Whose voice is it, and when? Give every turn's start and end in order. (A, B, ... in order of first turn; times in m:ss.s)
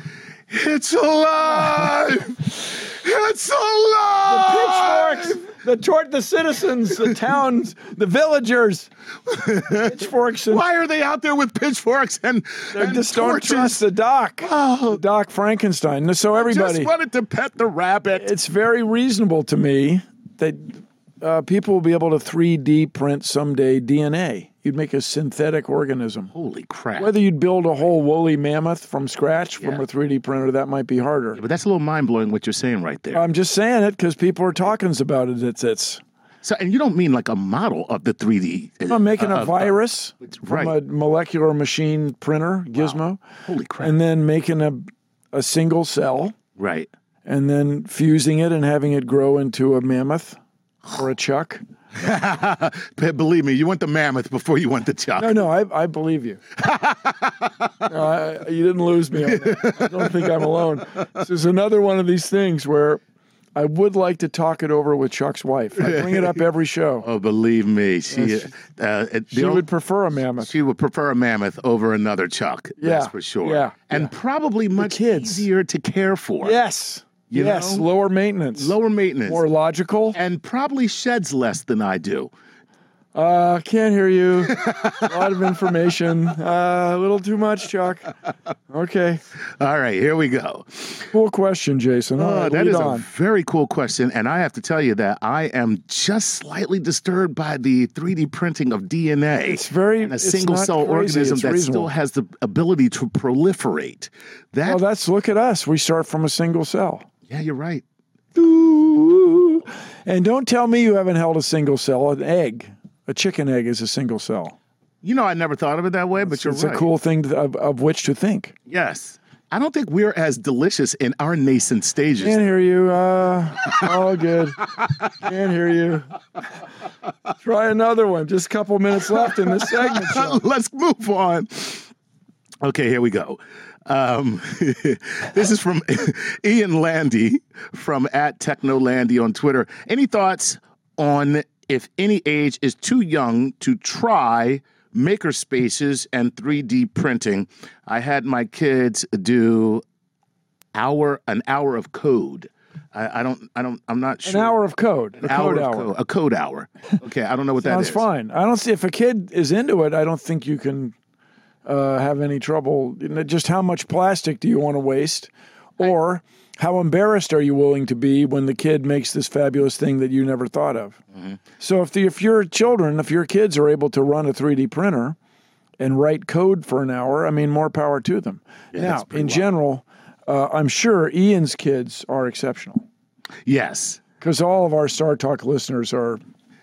0:00.5-0:05.4 A
0:04.2-0:08.9 B
0:09.3-0:13.8 A
0:09.7-0:10.6 B
0:12.7-0:16.9 B
0:14.4-0:15.0 A
0:16.3-0:18.3 A
0:18.1-0:26.3 B
0:26.3-0:27.1 A
0:27.0-0:31.4 B
0:31.3-0:33.2 A
0:33.1-0:36.0 B
0:36.4-0:40.7 A
0:38.9-0:43.2 B
0:42.8-0:43.9 A
0:43.8-0:46.4 B
0:46.6-0:46.9 A
0:47.2-0:50.4 B
0:50.9-0:51.6 B
0:52.0-0:55.4 A
0:55.2-0:56.4 B
0:56.6-0:57.9 A
0:57.8-1:03.0 B
0:59.2-1:00.6 A
1:03.6-1:07.0 B
1:05.8-1:06.4 A
1:07.0-1:09.6 A
1:08.1-1:08.5 B
1:09.3-1:10.5 B
1:10.4-1:16.6 A
1:12.8-1:14.1 B
1:14.8-1:15.5 B
1:16.4-1:18.7 B
1:17.3-1:17.8 A
1:18.5-1:19.4 A
1:19.3-1:20.2 B
1:20.1-1:22.3 A
1:23.1-1:28.1 B
1:24.5-1:25.4 A
1:28.7-1:29.2 B
1:29.6-1:31.1 A
1:31.1-1:33.0 B
1:32.2-1:44.8 A
1:39.5-1:41.9 B
1:44.6-1:47.1 B
1:47.3-1:47.8 A
1:48.3-1:54.6 B
1:55.0-1:56.9 A
1:56.2-1:58.6 B
1:58.7-2:02.4 A
2:02.2-2:06.2 B
2:07.4-2:10.4 B
2:09.2-2:11.9 A
2:12.6-2:29.8 A
2:30.7-2:34.6 A
2:34.2-2:35.9 B
2:35.2-2:38.0 A
2:37.6-2:40.9 B
2:41.6-2:51.0 B
2:51.6-2:55.2 B
2:55.8-3:02.8 B
2:58.7-2:59.5 A
3:03.4-3:04.0 A
3:04.2-3:06.2 B